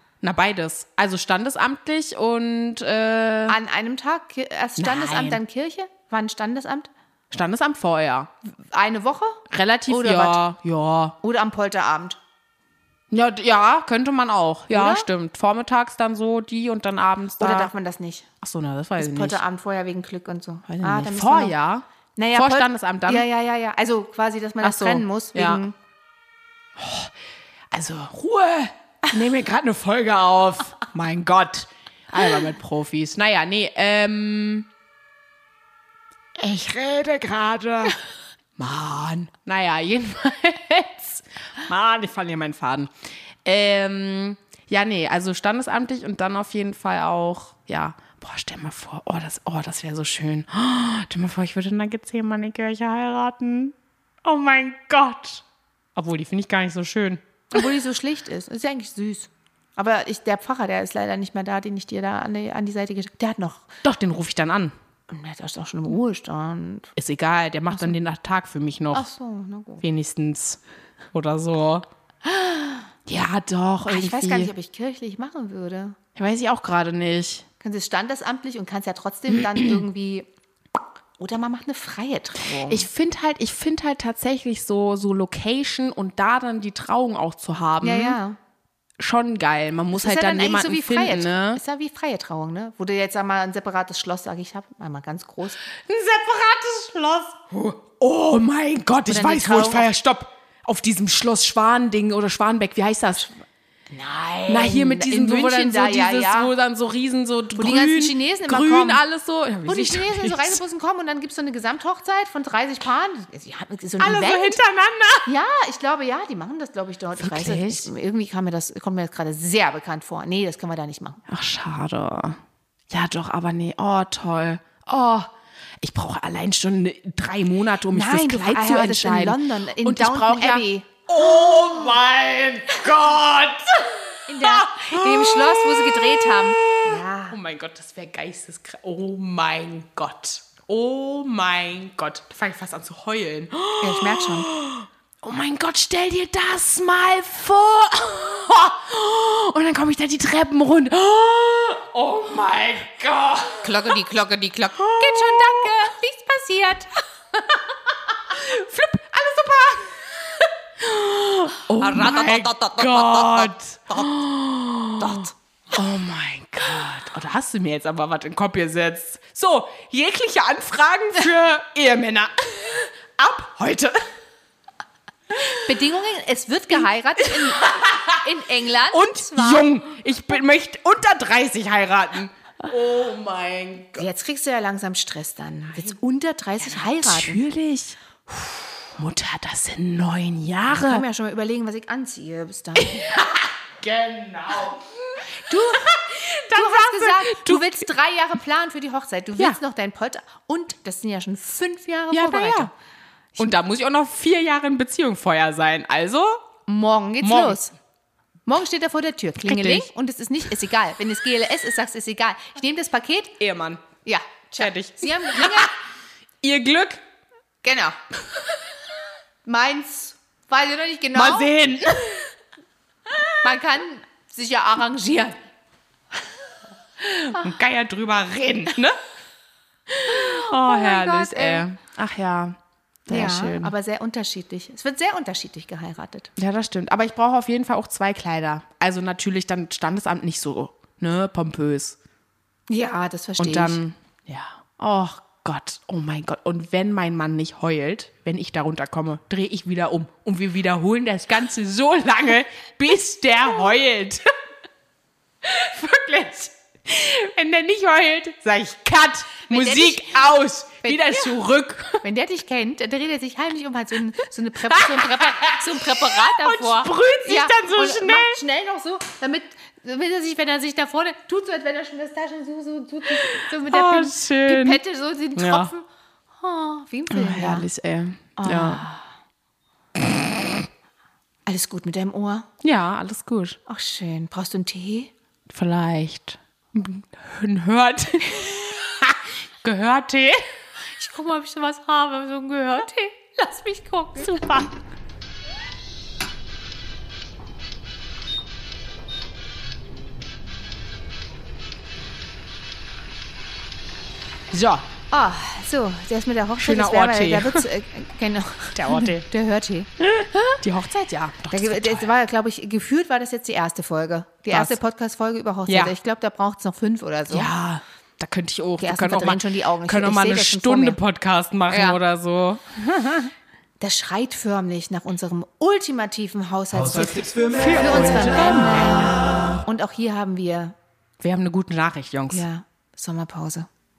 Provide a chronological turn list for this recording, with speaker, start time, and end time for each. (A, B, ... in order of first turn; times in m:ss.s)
0:00.2-0:03.6 A
0:03.5-0:06.9 B
0:04.8-0:05.4 A
0:07.3-0:08.3 A
0:08.4-0:10.4 B
0:09.5-0:11.2 A
0:11.2-0:12.2 B
0:13.1-0:17.7 A
0:14.7-0:15.1 B
0:17.4-0:18.3 B
0:18.4-0:19.4 A
0:19.0-0:21.6 B
0:20.7-0:23.2 A
0:22.2-0:25.8 B
0:24.6-0:25.6 A
0:26.8-0:27.1 A
0:27.7-0:34.7 A
0:36.4-0:38.0 A
0:38.6-0:42.9 A
0:43.4-0:55.4 A
0:55.9-0:57.7 A
0:57.5-1:03.7 B
1:03.8-1:04.7 A
1:05.1-1:06.9 B
1:07.0-1:09.1 A
1:08.9-1:09.8 B
1:09.8-1:10.6 A
1:11.1-1:11.8 A
1:13.0-1:14.5 A
1:13.9-1:16.0 B
1:16.2-1:17.4 A
1:17.6-1:20.3 B
1:21.2-1:22.9 B
1:22.5-1:28.2 A
1:27.8-1:28.4 B
1:29.0-1:31.6 A
1:30.0-1:35.6 B
1:35.7-1:43.3 A
1:39.0-1:39.9 B
1:43.9-1:46.5 B
1:44.5-1:50.6 A
1:47.6-1:49.0 B
1:49.6-1:54.6 B
1:54.0-1:55.3 A
1:55.2-2:01.2 B
1:57.2-1:57.9 A
2:01.3-2:02.4 A
2:02.9-2:05.3 A
2:05.8-2:33.9 A
2:07.9-2:11.0 B
2:14.3-2:17.4 B
2:23.8-2:24.5 B
2:33.6-2:37.6 B
2:34.8-2:35.9 A
2:38.2-2:54.0 A
2:41.8-2:44.2 B
2:45.0-2:45.3 B
2:55.4-2:59.6 B
2:57.2-2:58.2 A
2:58.9-3:04.1 A
3:04.0-3:07.4 B
3:06.6-3:11.0 A
3:10.7-3:13.0 B
3:12.8-3:17.8 A
3:15.4-3:16.0 B
3:16.5-3:22.7 B
3:22.1-3:22.7 A
3:23.4-3:26.4 A
3:26.7-3:27.7 B
3:27.2-3:27.6 A
3:28.5-3:33.4 B
3:29.4-3:29.9 A
3:33.4-3:33.8 A
3:34.0-3:35.7 B
3:34.6-3:35.7 A
3:36.4-3:37.0 A
3:37.6-3:38.0 B
3:39.4-3:41.6 B
3:41.1-3:42.3 A
3:43.4-3:45.4 B
3:47.0-3:49.0 A
3:49.9-3:53.7 A
3:50.1-3:51.7 B
3:53.1-3:56.3 B
3:56.4-4:02.0 A
4:02.7-4:03.8 B
4:03.4-4:14.3 A
4:15.4-4:22.0 A
4:19.5-4:20.2 B
4:20.8-4:21.2 B
4:22.0-4:35.8 B
4:24.7-4:28.4 A
4:33.3-4:34.8 A
4:35.3-4:35.7 A
4:36.4-4:37.7 B
4:37.1-4:38.8 A
4:38.4-4:39.0 B
4:41.4-4:42.5 B
4:42.6-4:43.6 A
4:43.7-4:45.1 B
4:45.5-4:50.4 A
4:51.0-4:54.6 B
4:54.3-4:54.7 A
5:04.5-5:04.8 A
5:05.1-5:10.6 B
5:06.6-5:07.7 A
5:08.7-5:09.3 A
5:10.0-5:12.1 A
5:11.5-5:17.5 B
5:14.5-5:14.8 A
5:15.7-5:15.9 A
5:17.3-5:23.3 A
5:18.8-5:21.0 B
5:21.7-5:22.0 B
5:23.8-5:30.7 B
5:26.9-5:29.6 A
5:31.2-5:32.4 A
5:32.3-5:33.7 B